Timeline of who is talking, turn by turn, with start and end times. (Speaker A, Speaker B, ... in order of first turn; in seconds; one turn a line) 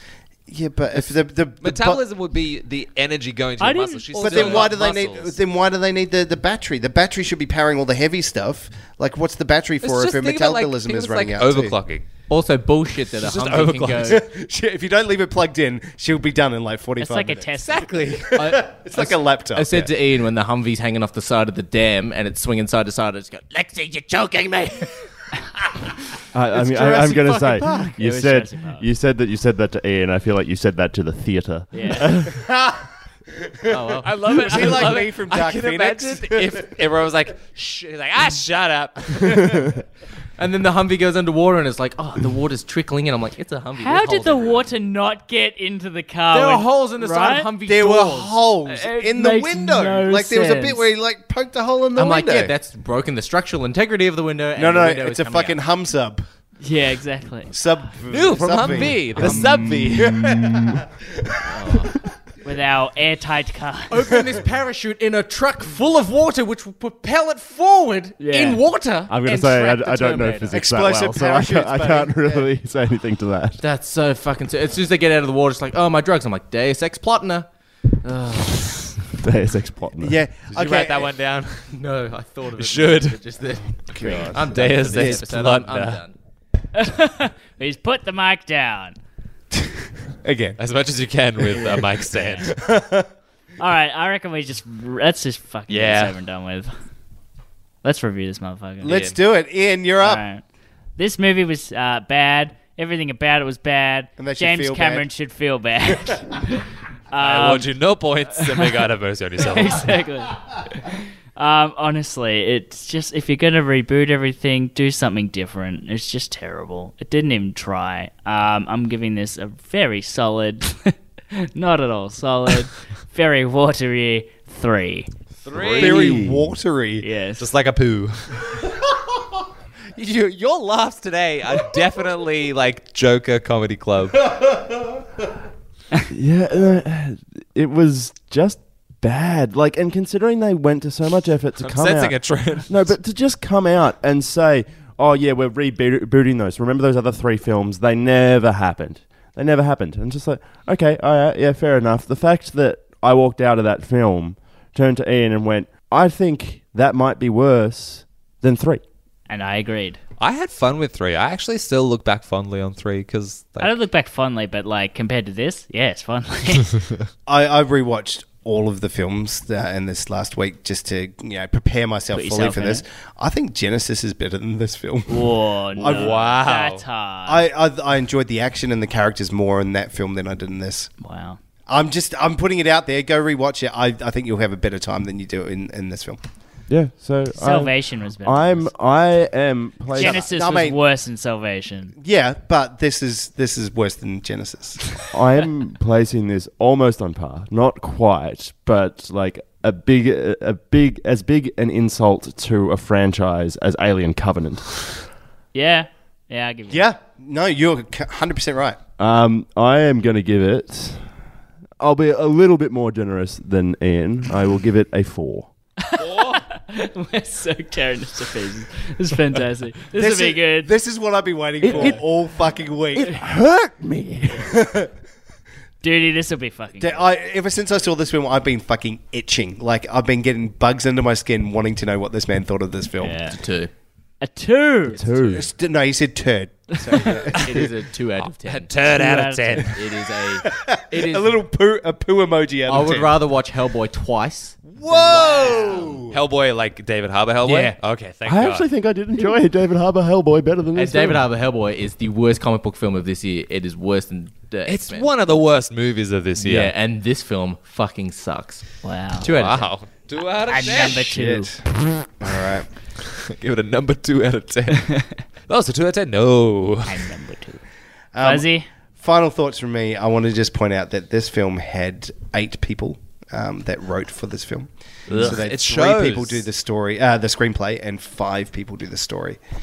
Speaker A: 0.5-2.0
Speaker B: 1.6-5.3
Speaker C: 3.6-4.7
Speaker A: 4.1-11.8
Speaker D: 4.2-4.6
Speaker B: 9.8-12.1
Speaker D: 12.3-14.2
Speaker B: 13.2-14.2
Speaker A: 14.0-19.9
Speaker C: 17.0-17.9
Speaker B: 17.7-18.3
Speaker D: 18.4-25.0
Speaker E: 26.3-32.4
Speaker D: 26.6-27.6
Speaker C: 27.5-28.9
Speaker C: 31.7-32.1
Speaker A: 32.3-32.8
Speaker A: 33.4-36.6
Speaker D: 33.7-34.1
Speaker B: 34.0-39.5
Speaker D: 40.4-44.7
Speaker C: 43.8-47.5
Speaker D: 46.3-48.5
Speaker A: 47.7-52.5
Speaker C: 48.7-50.9
Speaker D: 52.0-55.6
Speaker A: 54.6-56.2
Speaker C: 56.6-57.6
Speaker A: 57.5-61.8
Speaker B: 58.1-60.2
Speaker E: 58.9-60.8
Speaker D: 61.5-61.9
Speaker C: 62.4-64.0
Speaker D: 63.9-70.5
Speaker C: 68.2-68.6
Speaker E: 69.1-73.6
Speaker A: 70.5-72.5
Speaker D: 73.6-77.5
Speaker D: 78.0-79.0
Speaker E: 79.2-80.2
Speaker A: 80.0-81.1
Speaker B: 80.5-81.7
Speaker D: 81.7-86.2
Speaker B: 82.6-83.2
Speaker A: 83.9-85.2
Speaker B: 84.5-86.0
Speaker C: 86.7-89.0
Speaker A: 90.2-90.6
Speaker B: 90.6-92.6
Speaker C: 91.5-92.5
Speaker A: 92.5-93.1
Speaker C: 93.6-96.7
Speaker B: 95.7-96.1
Speaker C: 97.8-99.0
Speaker A: 98.8-100.2
Speaker B: 98.8-99.2
Speaker C: 100.0-100.4
Speaker C: 101.0-107.7
Speaker A: 104.2-105.1
Speaker B: 107.2-109.9
Speaker C: 108.3-108.8
Speaker C: 109.4-125.1
Speaker B: 125.5-126.2
Speaker A: 125.6-127.1
Speaker E: 125.6-126.5
Speaker C: 127.0-127.5
Speaker B: 127.4-128.3
Speaker B: 129.9-134.3
Speaker E: 136.1-158.8
Speaker B: 141.6-142.8
Speaker C: 159.3-160.0
Speaker B: 160.2-163.7
Speaker C: 163.6-166.8
Speaker A: 167.3-176.4
Speaker C: 172.1-172.8
Speaker C: 175.1-177.4
Speaker B: 175.8-176.8
Speaker A: 177.3-180.9
Speaker C: 181.0-181.4
Speaker A: 181.7-186.2
Speaker E: 186.7-190.2
Speaker C: 187.4-188.7
Speaker C: 189.9-191.9
Speaker A: 190.0-190.8
Speaker A: 192.0-195.0
Speaker E: 195.1-205.0
Speaker C: 205.5-206.8
Speaker A: 206.7-208.8
Speaker E: 209.0-211.1
Speaker E: 211.8-215.5
Speaker C: 215.8-220.7
Speaker B: 216.0-216.4
Speaker A: 219.9-223.2
Speaker E: 221.6-222.0
Speaker E: 222.9-224.6
Speaker A: 224.5-224.9
Speaker C: 225.8-227.1
Speaker A: 226.8-233.2
Speaker C: 233.0-233.4
Speaker D: 233.3-233.7
Speaker C: 234.2-235.3
Speaker E: 234.9-235.5
Speaker A: 235.3-237.5
Speaker D: 236.8-238.8
Speaker B: 238.2-239.8
Speaker C: 238.9-239.7
Speaker D: 239.7-241.4
Speaker A: 240.4-243.2
Speaker D: 242.7-246.0
Speaker A: 244.6-246.2
Speaker C: 245.1-245.8
Speaker B: 246.1-248.7
Speaker D: 247.4-247.8
Speaker E: 248.2-251.3
Speaker D: 250.8-255.1
Speaker B: 254.7-256.7
Speaker D: 256.4-259.8
Speaker C: 258.8-259.3
Speaker B: 259.3-261.1
Speaker C: 260.5-261.5
Speaker A: 261.1-262.7
Speaker B: 263.1-267.1
Speaker C: 266.9-267.6
Speaker A: 268.1-279.4
Speaker C: 268.2-268.7
Speaker B: 275.1-276.4